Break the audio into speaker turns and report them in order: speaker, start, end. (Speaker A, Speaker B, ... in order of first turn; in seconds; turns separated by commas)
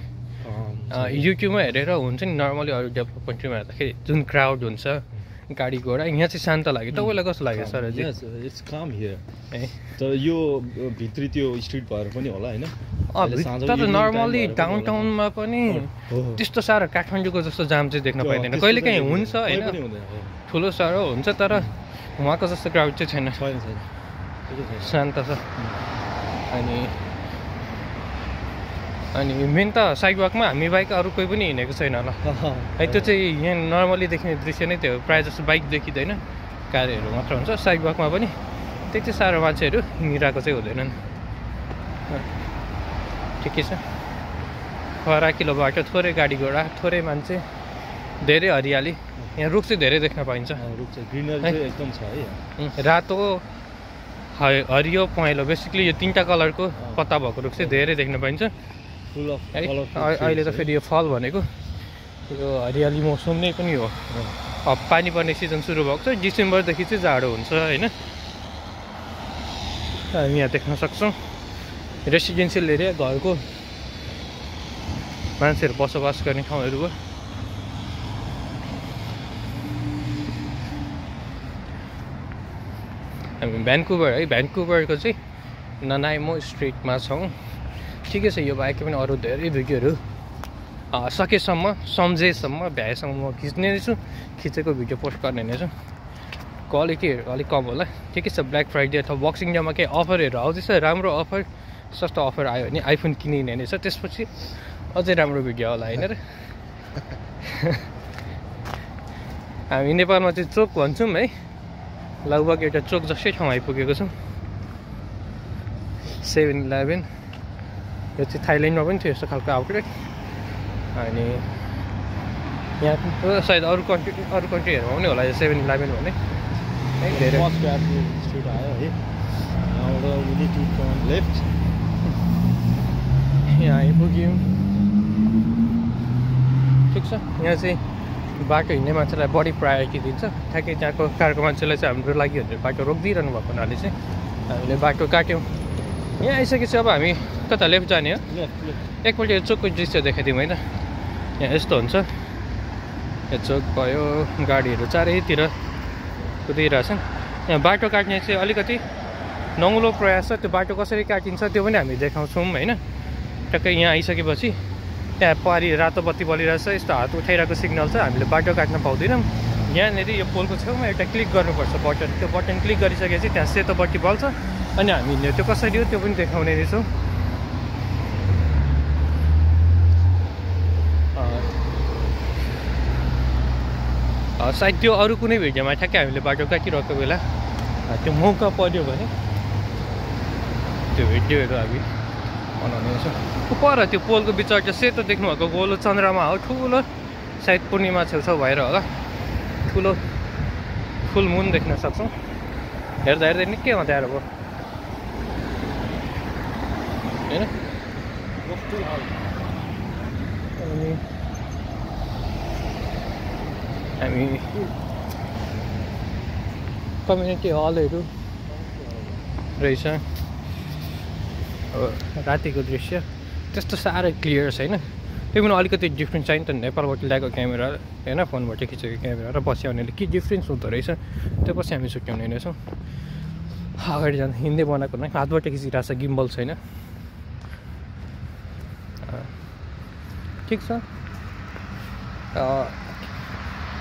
Speaker A: 0.4-1.3, Speaker B: 0.9-8.1, Speaker A: 6.9-9.2, Speaker B: 9.5-9.8, Speaker A: 9.8-16.4, Speaker B: 13.1-19.8, Speaker A: 18.2-20.4, Speaker B: 20.4-23.4, Speaker A: 23.4-23.9, Speaker A: 24.5-25.0, Speaker B: 24.8-25.5, Speaker A: 25.5-25.8, Speaker B: 26.5-27.0, Speaker B: 29.1-32.2, Speaker A: 32.2-33.2, Speaker B: 32.8-41.0, Speaker B: 43.4-43.8, Speaker B: 45.0-47.4, Speaker B: 48.2-50.6, Speaker A: 50.6-52.4, Speaker B: 52.6-53.4, Speaker B: 54.3-58.5, Speaker A: 56.8-58.0, Speaker A: 59.1-60.7, Speaker B: 59.5-61.5, Speaker B: 62.3-64.0, Speaker A: 64.1-64.3, Speaker B: 64.6-67.9, Speaker B: 70.1-71.2, Speaker B: 72.0-73.4, Speaker B: 75.4-77.0, Speaker B: 83.4-85.2, Speaker B: 85.8-87.3, Speaker B: 88.0-90.0, Speaker B: 90.9-95.7, Speaker B: 96.7-106.4, Speaker B: 107.4-107.9, Speaker B: 109.7-111.3, Speaker B: 112.2-114.1, Speaker B: 116.1-117.1, Speaker B: 118.2-120.1, Speaker B: 120.9-121.5, Speaker B: 122.8-126.2, Speaker B: 127.0-127.5, Speaker A: 127.1-131.5, Speaker B: 133.5-134.5, Speaker B: 136.9-137.8, Speaker B: 138.3-143.9, Speaker B: 144.5-145.5, Speaker B: 146.2-148.2, Speaker A: 148.3-148.8, Speaker B: 149.0-150.8, Speaker B: 151.4-152.1, Speaker B: 153.3-155.5, Speaker B: 156.4-158.8, Speaker B: 159.6-162.8, Speaker B: 163.5-164.6, Speaker B: 165.2-176.9, Speaker B: 181.1-181.5, Speaker B: 184.4-187.2, Speaker B: 187.8-189.1, Speaker B: 190.9-191.9, Speaker B: 192.6-196.9, Speaker B: 197.4-198.9, Speaker B: 199.7-200.0, Speaker B: 201.0-202.1, Speaker B: 203.0-204.2, Speaker A: 208.4-209.2, Speaker B: 210.6-211.0, Speaker B: 214.0-214.5, Speaker B: 217.0-218.1, Speaker A: 218.5-219.3, Speaker B: 219.6-220.0, Speaker B: 221.7-232.6, Speaker B: 233.8-236.6, Speaker B: 239.0-239.3, Speaker B: 240.4-240.8, Speaker B: 242.3-242.9